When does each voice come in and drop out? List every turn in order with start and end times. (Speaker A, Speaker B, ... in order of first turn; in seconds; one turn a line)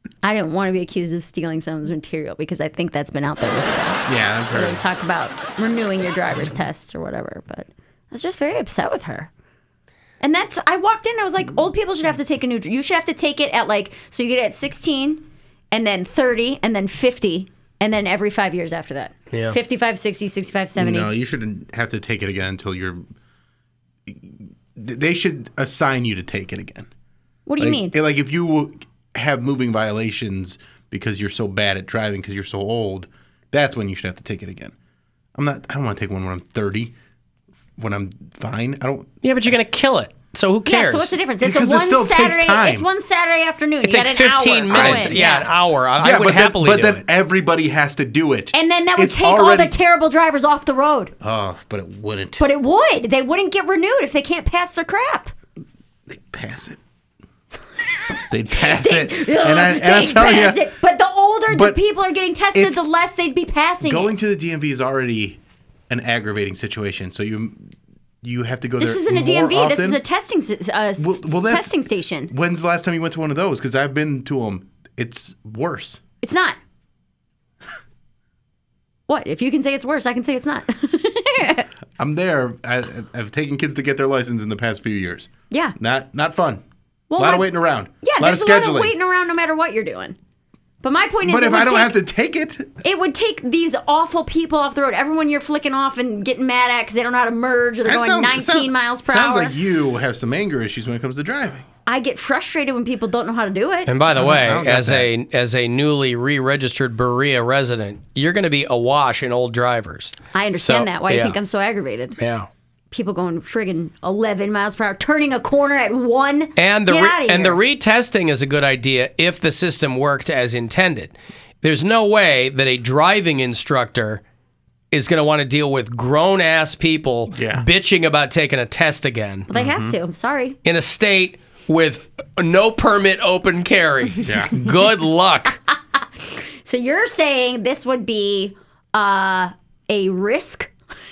Speaker A: 0.2-9.3
Speaker B: 4.1-4.8
Speaker A: 10.2-21.1
Speaker C: 19.3-19.6
Speaker B: 20.8-23.0
Speaker B: 24.1-26.9
Speaker A: 27.5-28.0
Speaker B: 27.6-34.7
Speaker B: 35.4-36.9
Speaker B: 37.8-39.2
Speaker C: 39.2-41.1
Speaker A: 40.7-45.5
Speaker B: 41.4-42.9
Speaker C: 43.8-47.0
Speaker B: 44.7-45.2
Speaker B: 46.0-49.7
Speaker A: 48.5-51.1
Speaker B: 51.2-52.4
Speaker A: 52.4-55.3
Speaker B: 56.1-56.8
Speaker B: 58.3-60.6
Speaker A: 58.6-64.1
Speaker B: 61.5-61.8
Speaker B: 62.5-62.8
Speaker B: 63.8-70.0
Speaker A: 68.8-72.3
Speaker B: 71.0-76.0
Speaker A: 76.2-76.6
Speaker A: 79.1-81.7
Speaker B: 82.0-86.6
Speaker A: 87.1-87.5
Speaker B: 87.2-88.9
Speaker A: 88.0-90.2
Speaker A: 90.8-91.9
Speaker B: 91.2-92.8
Speaker A: 92.8-99.5
Speaker B: 97.8-101.7
Speaker A: 101.9-103.9
Speaker C: 103.9-111.4
Speaker B: 104.1-105.1
Speaker A: 110.3-112.2
Speaker C: 112.2-112.5
Speaker A: 112.9-117.6
Speaker C: 116.6-124.2
Speaker C: 124.9-129.5
Speaker B: 127.3-127.7
Speaker A: 129.5-130.6
Speaker B: 129.5-130.0
Speaker C: 130.6-135.6
Speaker B: 134.2-134.7
Speaker A: 136.7-140.7